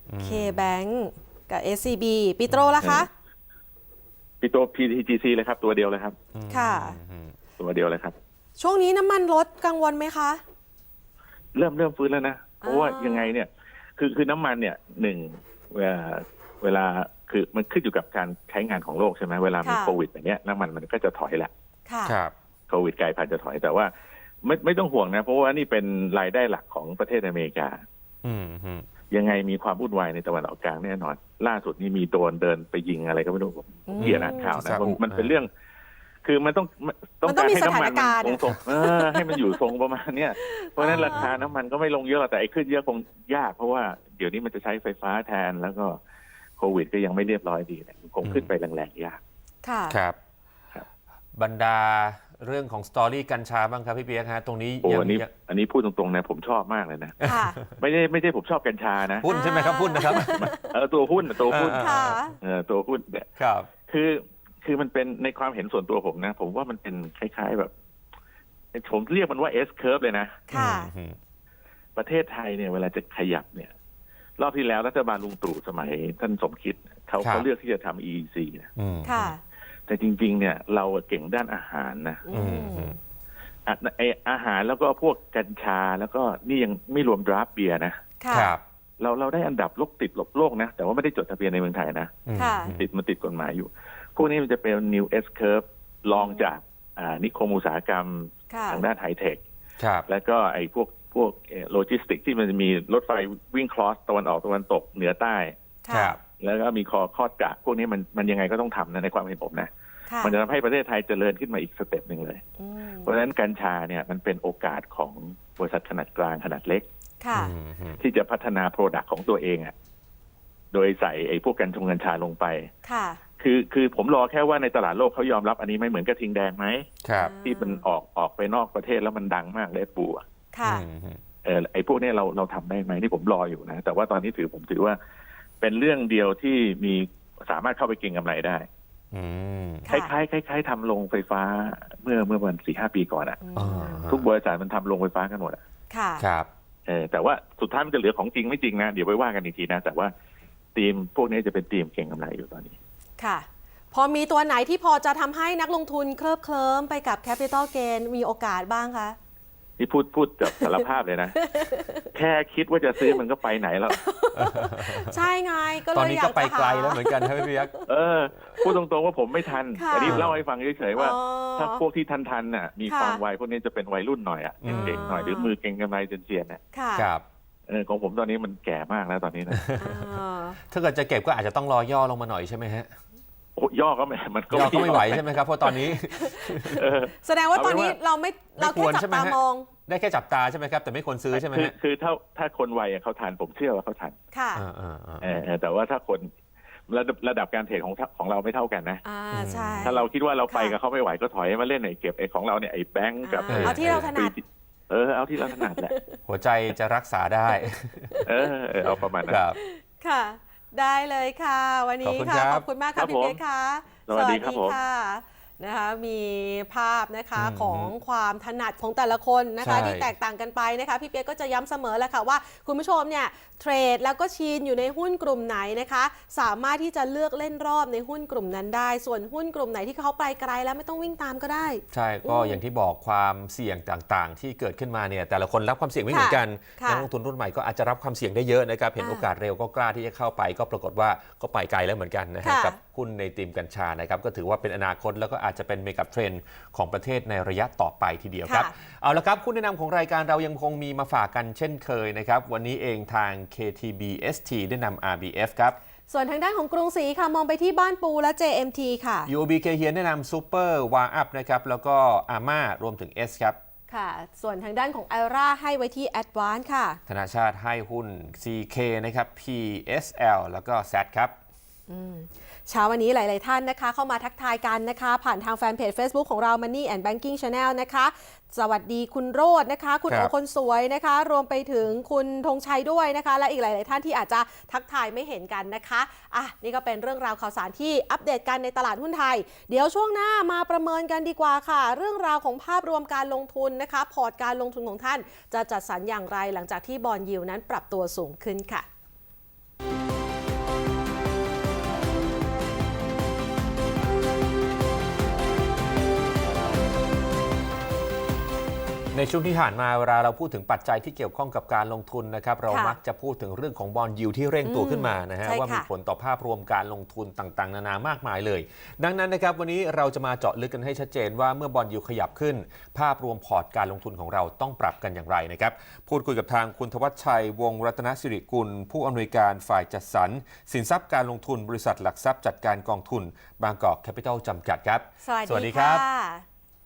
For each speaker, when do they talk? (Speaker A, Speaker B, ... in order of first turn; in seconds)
Speaker A: 0.1-0.7, 2.5-2.8, 6.3-7.3, 22.1-22.3, 28.2-28.9, 34.0-35.4, 40.9-41.4, 48.2-48.5, 49.9-50.2, 51.4-55.3, 57.2-57.5, 59.2-60.5, 61.5-62.2, 63.4-63.7, 70.5-71.2, 77.2-77.5, 78.8-79.3, 82.3-83.0, 88.3-88.6, 92.3-92.8, 99.8-100.1, 105.9-106.2, 117.3-118.0, 127.0-127.3, 130.6-131.2, 139.1-139.9, 143.6-144.3, 146.2-146.5, 164.3-165.2, 165.9-167.8, 170.1-170.4, 174.6-175.0, 176.9-177.2, 179.5-180.1, 180.7-182.9, 184.5-186.9, 188.6-191.7, 194.5-195.4, 199.3-200.0, 203.5-204.1, 206.2-208.2, 208.8-209.6, 212.0-212.7, 217.3-217.9, 219.6-220.1, 231.9-255.8, 259.3-263.6, 267.1-271.4, 309.1-336.0
Speaker B: 0.2-3.1, 6.5-7.0, 8.6-10.4, 12.6-13.3, 19.6-20.0, 21.9-22.1, 33.9-34.6, 37.2-39.5, 40.4-41.3, 49.6-50.0, 57.2-57.6, 59.2-60.7, 61.7-62.4, 70.5-70.9, 79.0-79.4, 82.2-83.0, 88.2-88.5, 92.3-92.8, 96.2-96.5, 98.5-98.8, 105.8-106.2, 110.1-110.3, 112.6-113.1, 117.2-117.5, 122.8-123.2, 127.2-127.8, 130.5-130.8, 143.4-144.1, 145.9-146.2, 153.2-159.2, 160.6-162.1, 163.9-167.9, 169.8-170.2, 170.9-171.8, 172.9-173.2, 174.7-175.5, 176.7-177.1, 179.8-180.6, 184.6-185.1, 185.7-189.7, 194.3-194.6, 199.0-200.7, 203.2-204.3, 205.5-206.2, 207.6-208.3, 209.5-232.6, 236.1-237.1, 239.0-239.2, 242.4-242.8, 248.4-248.7, 256.1-259.3, 263.9-267.0, 271.9-298.9, 312.7-313.0, 314.6-315.9, 335.2-336.4
Speaker C: 2.8-3.1, 4.4-6.2, 7.6-8.1, 11.5-21.5, 22.7-23.9, 24.4-27.8, 29.1-35.5, 36.2-46.0, 46.6-49.2, 54.8-59.3, 60.0-63.3, 63.9-67.7, 68.7-70.5, 72.0-73.7, 74.4-78.7, 79.9-82.2, 83.7-88.0, 89.0-99.4, 100.1-105.5, 106.4-109.7, 110.2-112.4, 113.0-116.8, 118.0-119.7, 120.7-122.7, 123.4-126.9, 127.4-130.2, 131.4-135.0, 135.6-138.7, 139.9-143.4, 144.1-145.6, 146.9-150.1, 150.7-152.8, 159.8-161.4, 162.1-164.0, 167.9-176.6, 177.7-179.6, 183.6-185.8, 186.7-188.0, 191.3-194.1, 195.2-196.3, 196.9-199.0, 199.8-205.9, 208.2-209.4, 212.9-213.4, 214.1-214.8